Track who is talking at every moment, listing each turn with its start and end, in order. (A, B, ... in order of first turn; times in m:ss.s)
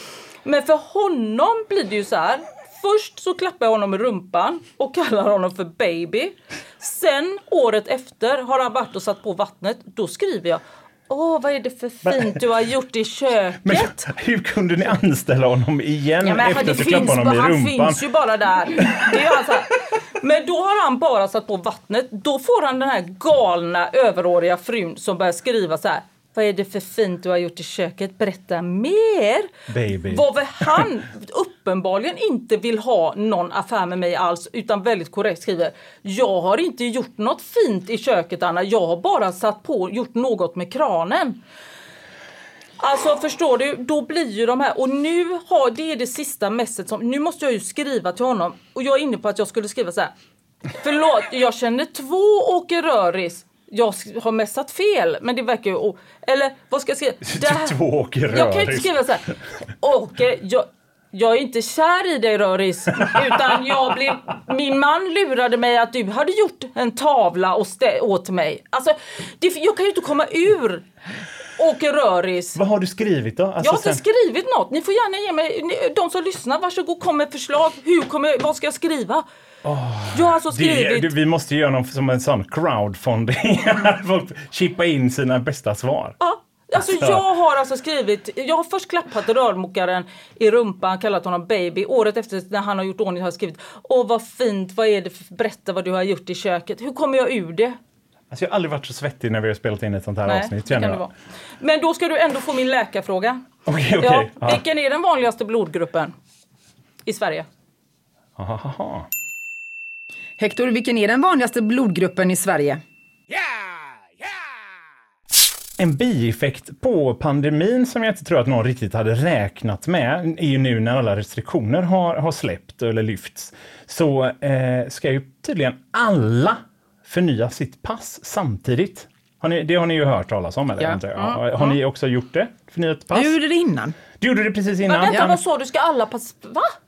0:00.4-0:14.1 A
0:12.0-0:12.4 B
0:13.6-0:18.0 B
0:16.2-0:29.5 A
0:18.8-0:19.2 B
0:29.7-0:30.9 B
0:30.1-0:41.4 A
0:42.8-0:50.1 A
0:50.8-0:57.8 A
0:57.2-0:59.0 B
0:58.3-0:59.2 A
0:59.8-1:10.9 A
1:11.6-1:12.6 A
1:12.6-1:14.0 B
1:13.6-1:19.2 A
1:19.6-1:26.2 B
1:20.1-1:21.1 A
1:26.2-1:37.8 A
1:26.8-1:27.2 B
1:38.3-1:41.1 B
1:40.3-1:43.4 A
1:43.7-1:44.6 B
1:44.0-1:46.1 A
1:47.0-1:47.5 A
1:48.4-1:49.1 B
1:50.4-1:52.8 C
1:55.8-2:13.4 B
2:11.2-2:11.8 A
2:13.1-2:14.0 C
2:14.2-2:15.4 B
2:14.9-2:16.7 A